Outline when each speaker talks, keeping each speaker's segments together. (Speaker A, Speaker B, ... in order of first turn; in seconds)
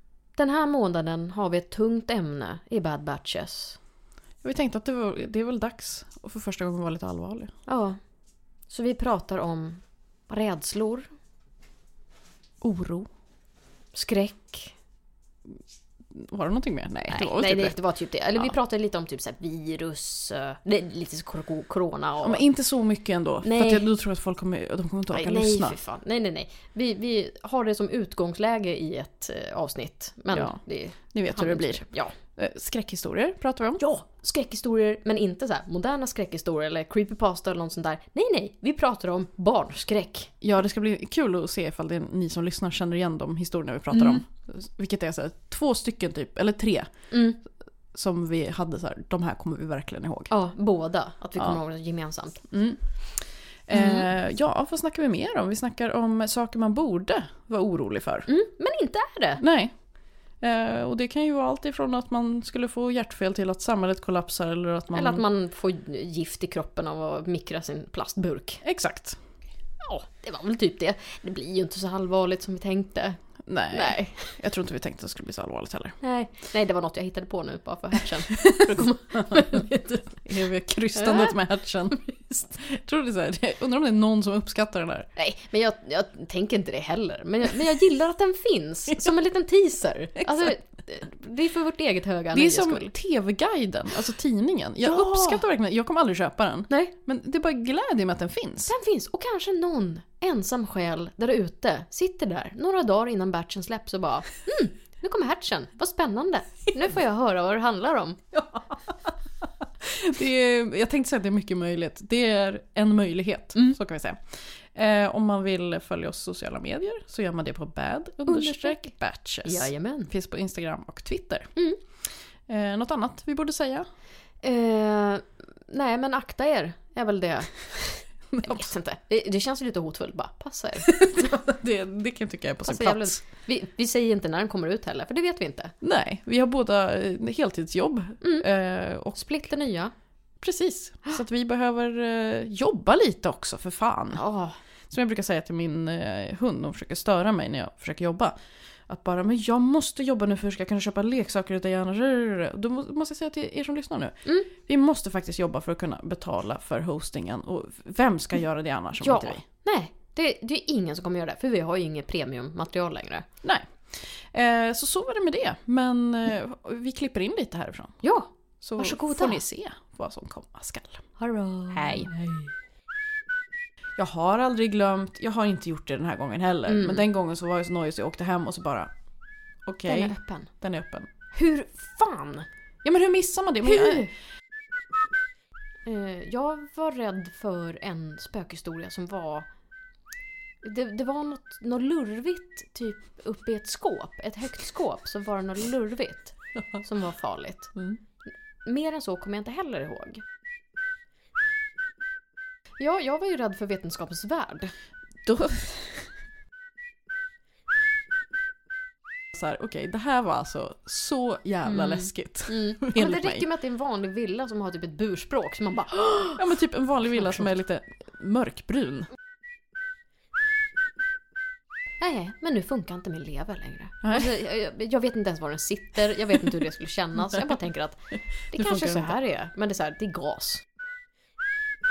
Speaker A: 0.4-3.8, 7.7-8.0, 8.7-11.1, 13.9-14.7, 17.1-22.4, 23.4-23.9, 25.1-32.1, 33.8-40.3, 43.9-44.2, 47.1-47.4, 50.3-52.4, 53.7-54.1, 58.3-59.4, 64.9-68.6, 69.8-74.4, 76.0-80.2, 80.9-81.4, 85.2-92.9, 94.8-95.4, 98.7-108.2, 118.3-118.9, 119.4-120.1, 124.4-131.3, 132.6-135.7, 138.2-138.4, 139.1-139.9, 144.1-144.6, 154.2-154.5, 159.0-163.2, 168.0-169.4, 171.2-172.5, 176.7-177.1, 179.8-180.5, 181.3-182.5, 183.6-184.1, 185.8-189.5, 190.6-197.7, 198.6-200.2, 202.8-204.7, 211.6-216.6, 222.0-230.6
Speaker B: 4.4-7.5, 12.6-13.1, 16.1-17.8, 22.2-25.8, 30.3-33.8, 40.4-46.9, 47.9-50.3, 52.5-58.3, 59.4-59.8, 60.4-65.2, 68.6-69.2, 73.5-76.0, 78.6-85.1, 92.3-98.7, 108.6-109.1, 109.8-121.5, 122.5-123.9, 128.3-128.7, 130.8-133.2, 135.8-139.2, 140.4-144.2, 144.9-148.3, 148.9-159.4, 163.4-168.0, 168.6-171.0, 171.7-172.1, 173.9-178.9, 179.7-181.1, 182.8-184.1, 205.2-206.1, 209.3-213.4, 216.3-219.1, 224.0-224.3, 228.5-229.1